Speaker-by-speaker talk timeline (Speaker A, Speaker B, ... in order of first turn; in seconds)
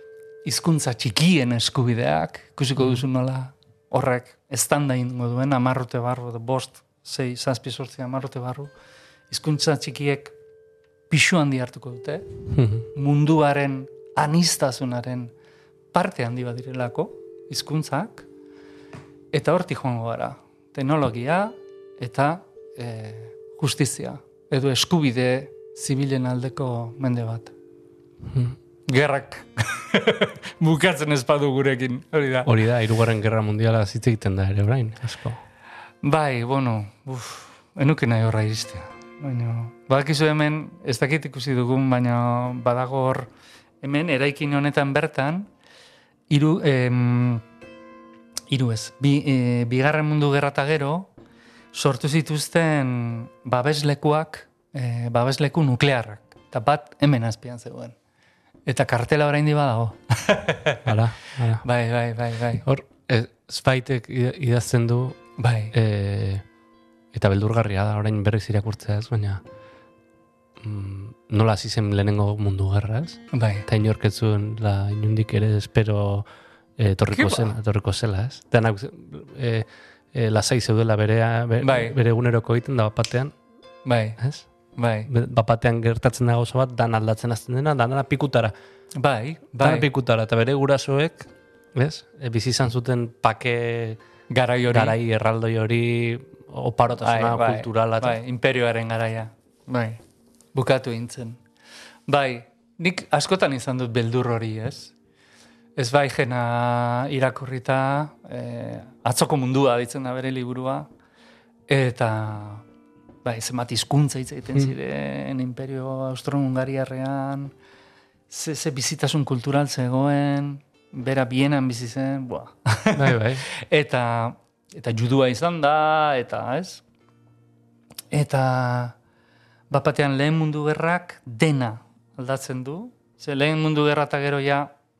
Speaker A: 0.4-8.7, 9.3-10.3, 11.1-12.3, 12.9-15.3, 15.9-18.3, 19.3-27.5, 28.9-32.5, 36.0-43.3, 43.8-45.5, 46.3-47.4, 48.5-51.1, 51.7-58.0, 58.7-60.9, 61.6-62.7, 65.4-65.7, 73.3-73.7, 77.1-77.5, 81.6-82.0, 83.9-84.2, 84.8-85.1, 89.0-89.9, 94.3-95.0, 97.0-100.0, 100.5-101.4, 102.1-104.9, 105.8-110.9, 111.7-112.7, 113.2-117.5, 118.3-126.8, 128.1-128.9, 129.7-134.7
Speaker B: 12.5-12.9, 28.3-28.6, 32.5-35.4, 60.9-61.7, 62.6-66.5, 67.1-69.4, 70.6-76.3, 76.8-83.3, 84.2-84.5, 85.0-88.5, 89.6-94.0, 94.7-98.2, 123.0-123.5